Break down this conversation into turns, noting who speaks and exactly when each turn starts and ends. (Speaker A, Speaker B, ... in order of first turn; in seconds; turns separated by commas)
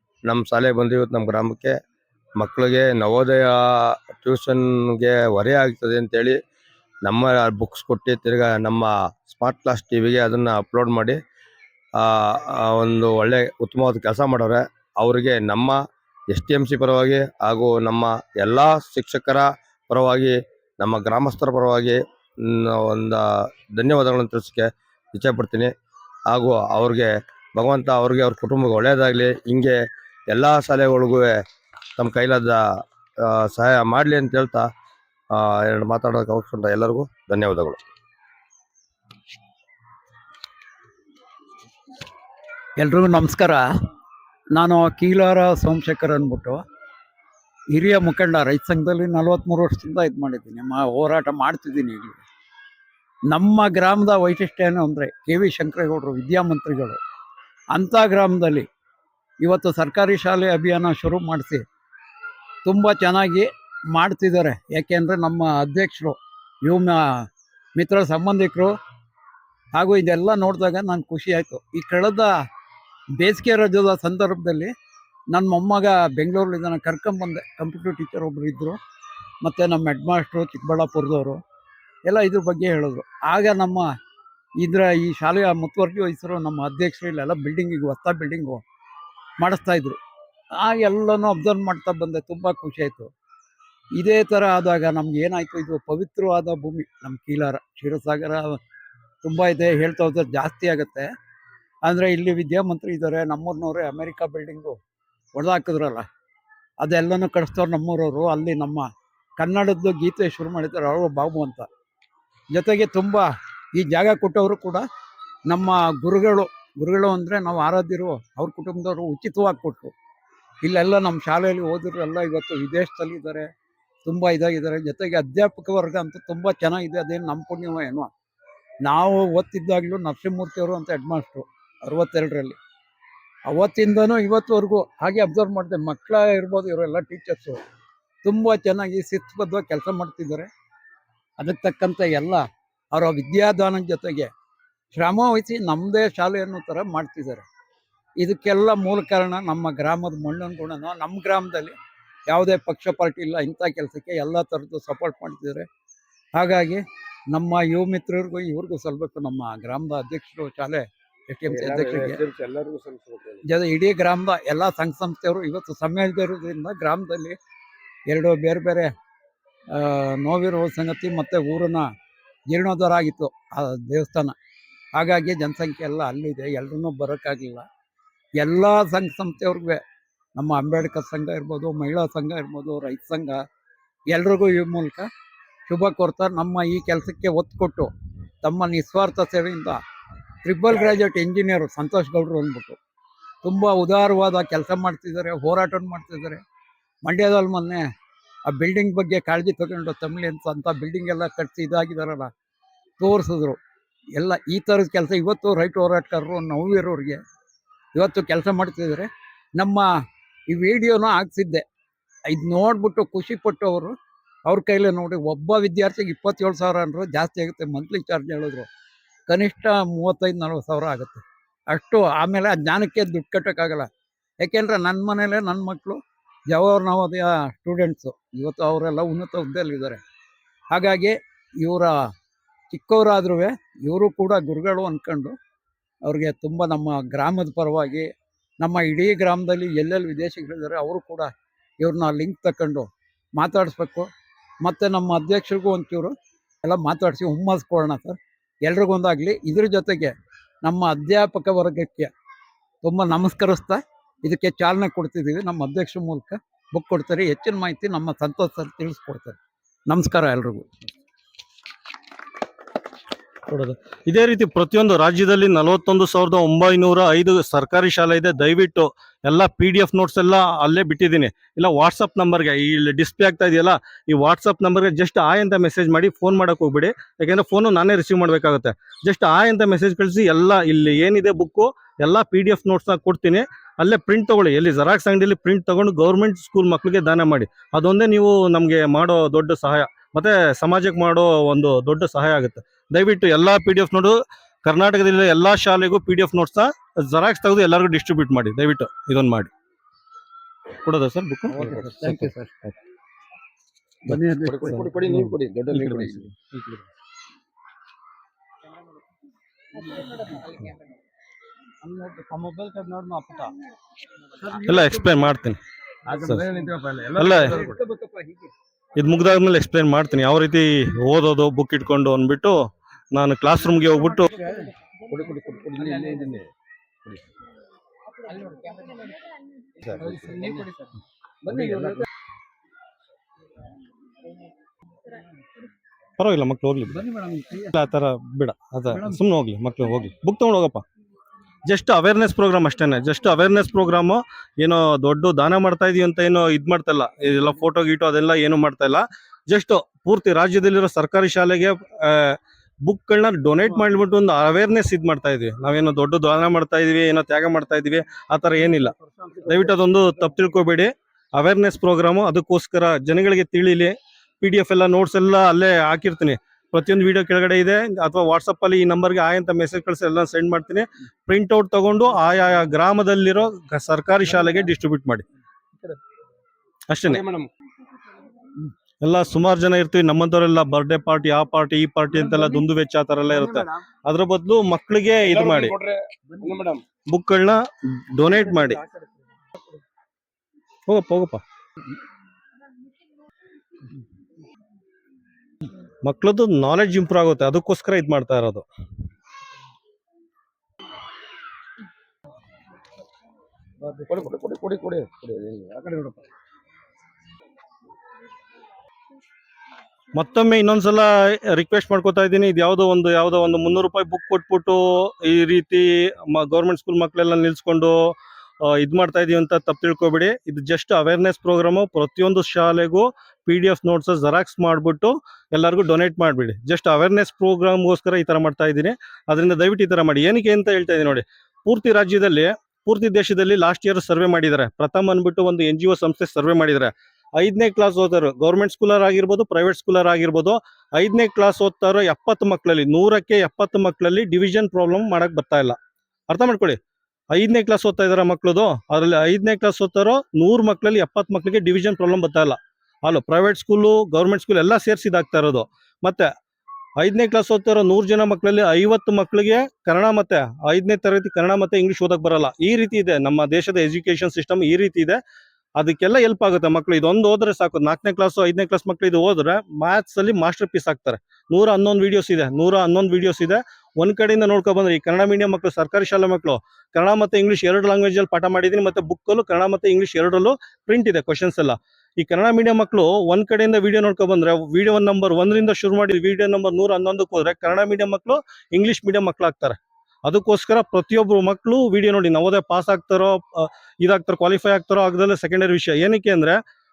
Speaker A: 0.2-1.8, Speaker A: 2.4-6.4, Speaker A: 7.0-11.2, Speaker A: 12.0-23.2, Speaker A: 23.8-25.7, Speaker A: 26.3-29.8, Speaker A: 30.3-31.3, Speaker A: 32.0-32.6, Speaker A: 33.2-34.7, Speaker A: 35.3-37.8, Speaker B: 42.8-43.6, Speaker B: 44.5-46.6, Speaker B: 47.7-52.2, Speaker B: 53.3-57.0, Speaker B: 57.7-58.6, Speaker B: 59.4-61.6, Speaker B: 62.6-67.2, Speaker B: 67.8-68.7, Speaker B: 69.7-72.3, Speaker B: 73.2-74.7, Speaker B: 75.3-78.8, Speaker B: 79.4-81.4, Speaker B: 82.0-83.9, Speaker B: 84.6-88.6, Speaker B: 89.4-90.0, Speaker B: 90.6-93.1, Speaker B: 94.0-98.6, Speaker B: 99.2-101.1, Speaker B: 101.8-104.8, Speaker B: 105.3-106.0, Speaker B: 106.8-108.9, Speaker B: 109.4-111.7, Speaker B: 112.5-114.8, Speaker B: 115.5-119.9, Speaker B: 120.6-123.5, Speaker B: 124.0-128.1, Speaker B: 128.8-132.6, Speaker B: 133.5-137.6, Speaker B: 138.2-140.5, Speaker B: 141.4-142.4, Speaker B: 142.9-144.3, Speaker B: 144.9-147.4, Speaker B: 148.2-151.8, Speaker B: 152.3-155.7, Speaker B: 156.3-156.8, Speaker B: 157.3-162.2, Speaker A: 161.5-163.4, Speaker B: 163.4-167.4, Speaker B: 168.1-168.9, Speaker B: 169.7-171.8, Speaker B: 172.5-174.3, Speaker B: 174.9-177.7, Speaker B: 178.4-179.8, Speaker B: 180.4-183.4, Speaker B: 184.1-185.1, Speaker B: 185.7-187.9, Speaker B: 188.4-189.8, Speaker B: 190.4-192.8, Speaker B: 193.4-196.4, Speaker B: 197.0-197.8, Speaker B: 198.5-202.3, Speaker B: 203.0-203.6, Speaker B: 204.2-207.2, Speaker B: 207.9-209.9, Speaker B: 210.5-211.6, Speaker B: 212.3-213.9, Speaker B: 214.4-218.7, Speaker B: 219.3-223.9, Speaker B: 224.4-230.0, Speaker B: 230.7-231.9, Speaker B: 232.7-235.3, Speaker B: 236.0-238.1, Speaker B: 238.6-241.3, Speaker B: 241.8-244.1, Speaker B: 244.6-250.1, Speaker B: 250.6-252.1, Speaker B: 252.8-260.7, Speaker C: 263.5-299.5, Speaker C: 300.8-302.3, Speaker B: 301.5-302.5, Speaker B: 304.1-304.9, Speaker A: 304.4-306.3, Speaker C: 305.2-306.8, Speaker B: 309.8-310.6, Speaker B: 311.8-313.5, Speaker B: 314.4-315.1, Speaker C: 314.7-315.6, Speaker A: 316.1-317.8, Speaker C: 317.2-317.5, Speaker B: 317.4-318.4, Speaker C: 318.9-322.6, Speaker C: 323.1-324.3, Speaker B: 324.2-324.6, Speaker A: 325.1-326.5, Speaker B: 325.8-326.2, Speaker B: 328.3-329.1, Speaker A: 329.8-330.6, Speaker B: 330.0-330.8, Speaker B: 331.4-332.0, Speaker A: 331.5-332.0, Speaker C: 336.2-337.0, Speaker B: 336.9-337.7, Speaker C: 337.7-340.8, Speaker B: 338.9-339.2, Speaker C: 341.6-375.2, Speaker C: 376.9-377.2, Speaker A: 377.1-377.5, Speaker C: 379.0-385.7, Speaker A: 385.2-386.8, Speaker C: 387.1-388.8, Speaker C: 390.9-391.4, Speaker C: 396.0-398.6, Speaker A: 404.1-406.1, Speaker C: 410.1-445.8, Speaker C: 446.3-446.8, Speaker C: 447.3-456.3, Speaker C: 457.0-465.2, Speaker C: 465.8-496.6